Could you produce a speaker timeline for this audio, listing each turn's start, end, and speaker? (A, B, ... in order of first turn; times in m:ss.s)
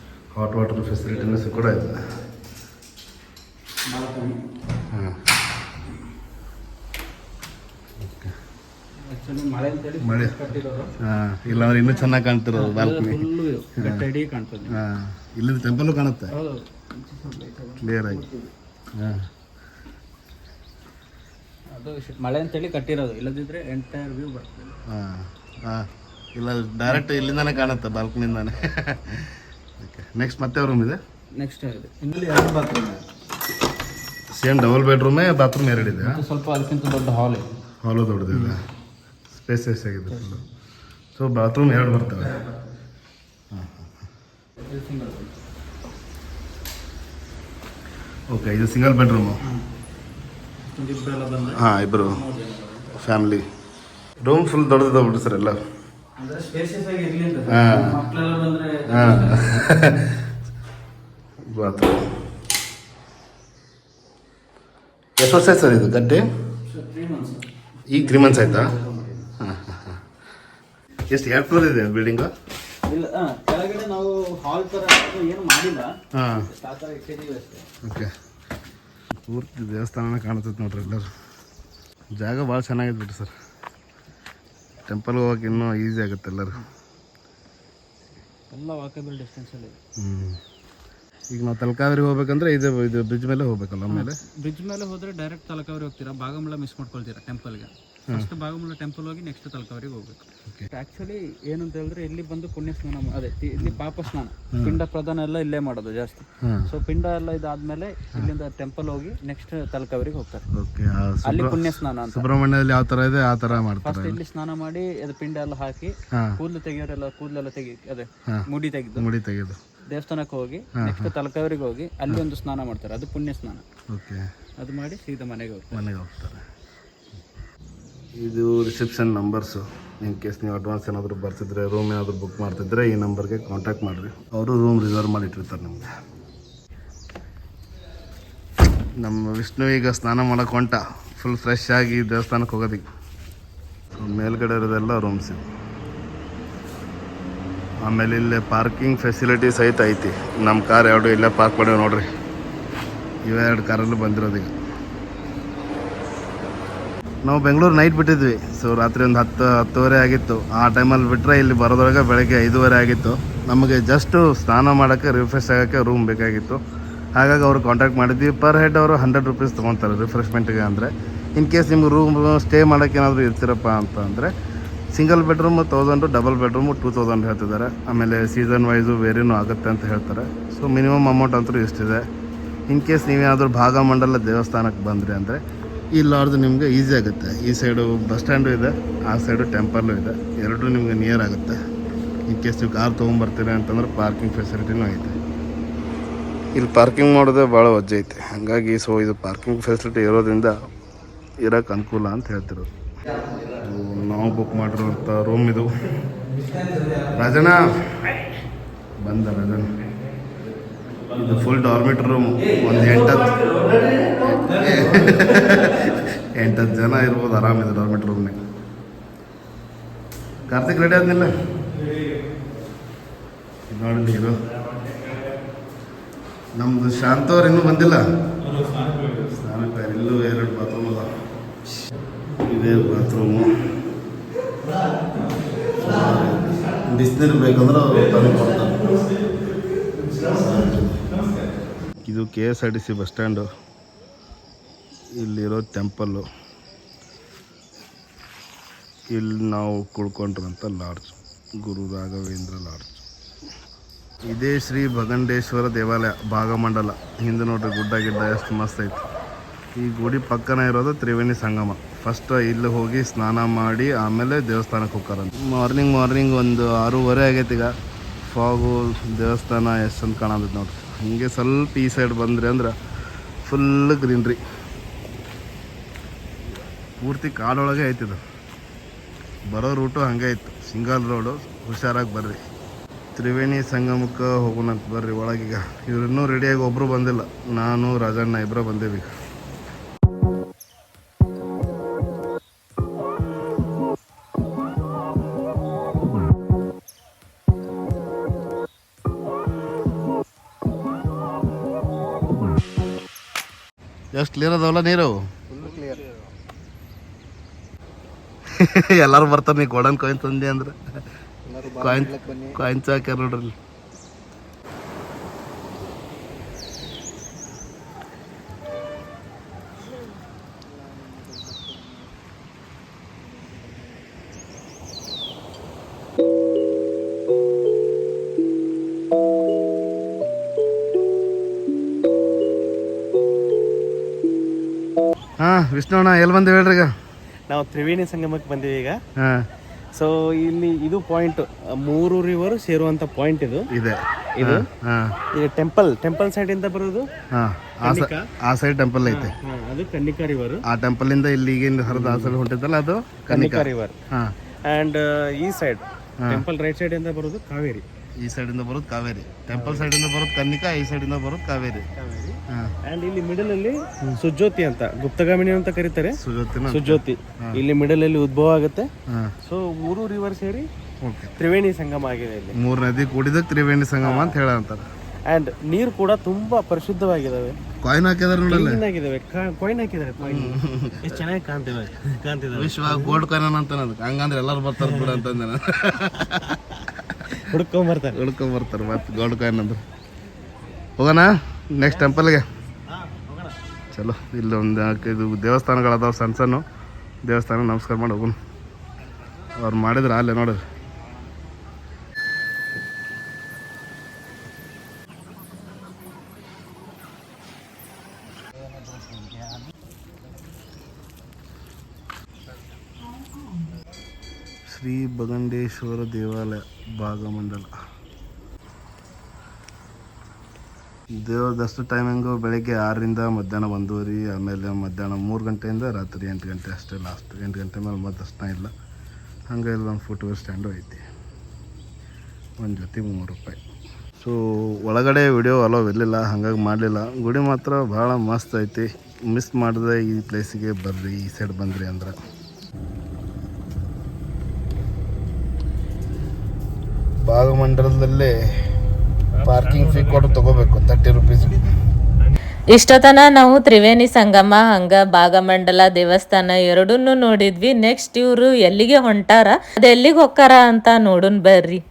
0:00.3-0:02.0 A
0:01.2-0:01.6 B
0:03.9-0:04.4 B
0:04.9-0:05.2 A
0:08.0-0:08.3 A
0:09.0-0:10.9 B
0:10.0-0:10.4 A
0:11.0-0:13.3 A
0:11.5-0:14.8 B
0:13.8-0:14.0 A
0:14.7-0:16.3 A
0:16.3-0:18.5 B
0:17.8-0:18.2 A
0:18.9-0:19.3 A
0:21.7-0:24.8 B
0:24.9-0:31.0 A
0:31.3-0:33.0 B
0:34.3-0:36.2 A
0:36.0-0:37.5 B
0:37.8-0:38.6 A
0:38.3-0:38.6 B
0:39.3-0:40.4 A
0:40.1-0:40.4 B
0:41.1-0:42.4 A
0:43.5-0:43.9 A
0:44.6-0:45.3 B
0:48.3-0:49.4 A
0:50.7-0:52.9 B
0:51.5-0:52.2 A
0:52.9-0:53.4 A
0:54.2-0:55.6 A
0:56.2-0:59.6 B
0:57.5-0:58.0 A
0:58.9-1:00.3 A
1:01.4-1:02.1 A
1:05.2-1:06.2 A
1:06.6-1:09.3 B
1:07.9-1:08.7 A
1:09.4-1:10.0 A
1:11.1-1:12.3 A
1:12.8-1:17.6 B
1:16.1-1:16.5 A
1:17.8-1:18.1 A
1:19.3-1:21.1 A
1:22.1-1:23.3 A
1:24.8-1:26.6 A
1:28.5-1:29.8 B
1:30.0-1:30.4 A
1:31.3-1:34.2 A
1:33.9-1:50.4 B
1:44.5-1:44.8 A
1:46.4-1:46.7 A
1:50.5-1:54.2 A
1:51.2-1:52.2 B
1:53.8-1:59.1 B
1:56.1-1:56.4 A
1:58.2-1:59.6 A
1:59.9-2:03.6 B
2:00.8-2:01.1 A
2:03.9-2:04.3 A
2:04.6-2:05.8 B
2:05.7-2:06.4 A
2:08.2-2:15.9 A
2:19.0-2:22.8 A
2:24.0-2:25.4 A
2:27.8-2:32.1 A
2:33.2-2:34.5 A
2:37.2-2:46.6 A
2:47.1-2:54.3 A
2:54.9-3:02.0 A
3:02.7-3:05.4 A
3:05.9-3:11.6 A
3:12.3-3:15.2 A
3:16.5-3:20.5 A
3:21.4-3:22.7 A
3:23.6-3:25.9 A
3:27.1-3:28.1 A
3:29.0-3:29.7 A
3:31.1-3:33.4 A
3:32.6-3:35.6 B
3:34.3-3:38.4 A
3:40.5-3:41.5 A
3:43.7-3:44.5 A
3:46.6-3:48.0 A
3:49.4-3:51.1 A
3:52.4-3:53.7 A
3:55.8-3:59.0 A
4:00.3-4:01.2 A
4:02.0-4:03.5 A
4:05.1-4:06.2 A
4:09.1-4:13.0 A
4:14.3-4:19.0 A
4:19.8-4:32.7 A
4:33.4-4:34.4 A
4:37.0-4:38.2 A
4:39.5-4:42.4 A
4:43.1-4:49.1 A
5:04.1-5:05.4 A
5:08.5-5:10.7 A
5:11.7-5:13.5 A
5:35.4-5:36.9 A
5:37.5-5:39.0 C
5:39.2-5:39.5 A
5:39.9-5:43.7 C
5:43.7-5:45.1 A
5:44.4-5:44.6 C
5:45.3-5:47.0 C
5:47.3-5:49.3 A
5:47.8-5:48.2 C
5:49.1-5:50.6 C
5:50.7-5:54.3 A
5:51.9-5:52.3 C
5:53.3-5:53.9 C
5:54.7-5:57.8 C
5:58.2-6:01.9 A
5:59.5-5:59.9 C
6:02.0-6:06.1 C
6:06.2-6:07.5 A
6:06.7-6:08.9 C
6:09.4-6:10.7 C
6:11.0-6:11.3 A
6:11.4-6:12.5 C
6:12.6-6:14.8 A
6:14.0-6:14.3 C
6:15.3-6:17.6 C
6:17.8-6:18.8 A
6:18.5-6:23.2 C
6:20.2-6:21.0 A
6:22.6-6:27.4 A
6:24.8-6:25.1 C
6:27.5-6:28.1 C
6:28.1-6:29.8 A
6:31.0-6:32.4 A
6:32.9-6:33.6 C
6:33.9-6:36.6 A
6:37.2-6:38.4 A
6:39.6-6:40.6 A
6:54.7-6:57.7 A
7:01.2-7:08.7 A
7:09.5-7:11.0 A
7:12.6-7:13.6 A
7:14.2-7:22.2 A
7:27.2-7:28.3 A
7:29.4-7:31.7 A
7:32.7-7:41.8 D